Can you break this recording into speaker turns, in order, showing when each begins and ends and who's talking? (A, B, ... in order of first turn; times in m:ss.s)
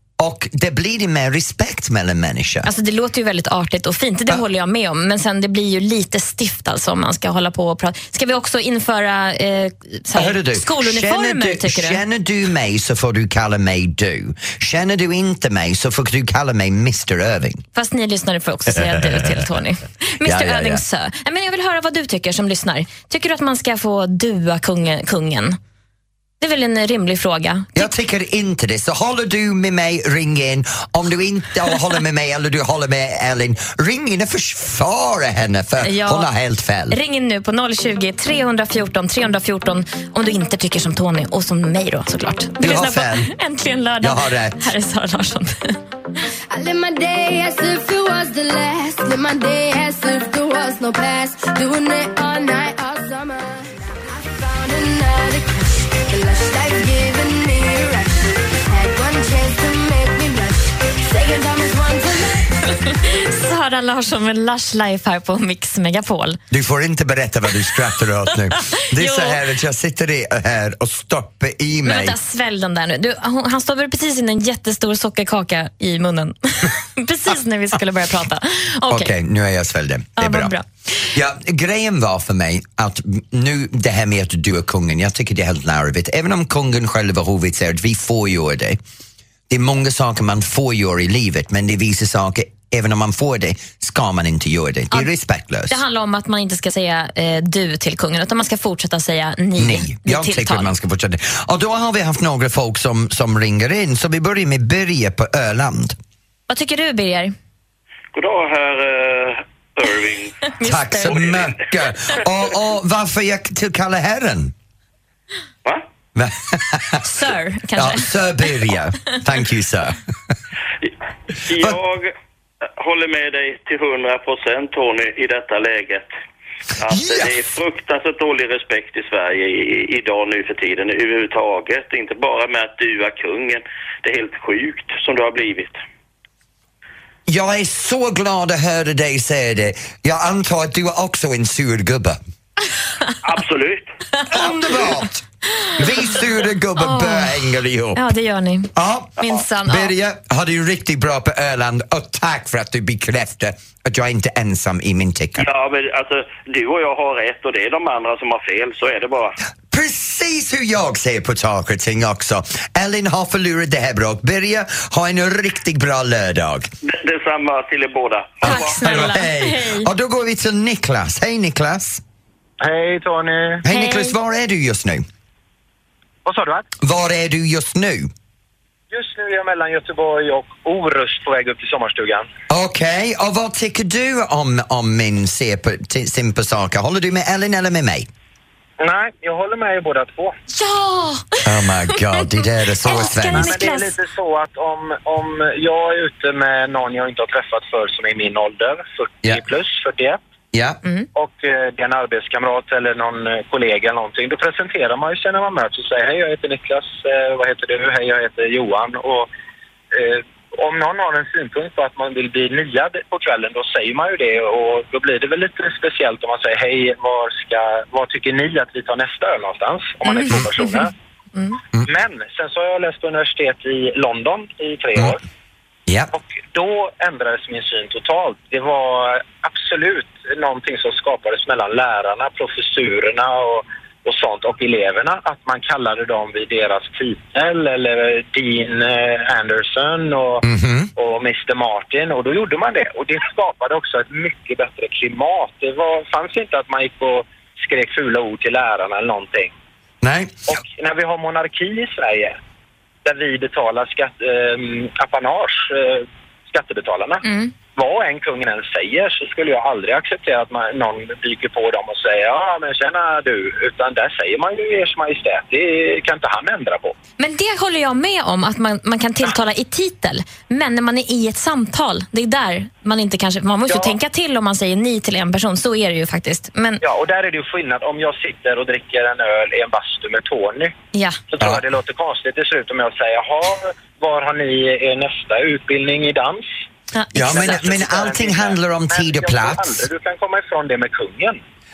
0:00.2-0:02.7 A
0:02.6-0:12.0 B
0:10.2-0:17.6 A
0:17.7-0:25.6 B
0:18.7-0:19.4 A
0:20.2-0:20.8 A
0:26.4-0:27.9 B
0:27.8-0:37.0 A
0:35.8-0:36.3 B
0:36.9-0:45.8 B
0:42.6-0:43.3 A
0:44.0-0:44.6 A
0:46.5-0:53.5 C
0:54.2-1:02.3 C
1:02.8-1:06.4 B
1:06.5-1:12.2 A
1:08.9-1:09.4 B
1:11.8-1:19.1 B
1:18.9-1:20.6 A
1:20.2-1:21.1 B
1:21.1-1:28.8 A
1:29.5-1:35.8 A
1:35.7-1:40.7 B
1:39.6-1:46.0 A
1:46.5-1:47.3 B
1:48.1-1:50.4 D
1:50.6-1:51.2 B
1:50.6-1:54.5 A
1:51.1-1:51.4 D
1:56.2-1:57.0 A
1:57.0-1:58.5 B
1:57.8-2:00.0 A
2:01.4-2:02.1 D
2:02.8-2:06.1 D
2:06.8-2:15.8 D
2:06.9-2:07.4 A
2:17.3-2:22.2 A
2:23.2-2:23.9 D
2:24.3-2:25.2 A
2:25.8-2:28.1 A
2:26.8-2:29.9 B
2:28.7-2:35.5 A
2:35.4-2:39.4 D
2:39.7-2:46.7 A
2:46.8-2:48.8 D
2:48.4-2:52.0 A
2:48.4-2:49.9 B
2:52.6-2:53.6 E
2:53.6-2:55.0 A
2:53.7-2:54.2 B
2:56.2-2:56.7 E
2:56.8-2:58.1 A
2:58.9-3:02.3 E
3:02.5-3:08.1 A
3:08.8-3:10.4 E
3:10.5-3:12.3 B
3:11.4-3:13.6 A
3:12.8-3:14.0 B
3:12.9-3:20.2 E
3:20.5-3:20.8 A
3:21.2-3:29.3 E
3:29.9-3:40.9 E
3:40.0-3:41.6 B
3:41.8-3:45.2 E
3:45.9-3:46.1 A
3:46.1-4:09.5 E
4:00.4-4:00.9 A
4:10.0-4:10.5 A
4:10.5-4:12.4 E
4:13.0-4:27.0 E
4:17.2-4:17.5 B
4:27.2-4:36.8 B
4:33.7-4:34.0 E
4:36.8-4:40.7 E
4:40.9-4:41.2 B
4:41.3-4:46.5 E
4:46.9-4:47.6 B
4:47.1-4:49.7 A
4:47.2-4:51.4 E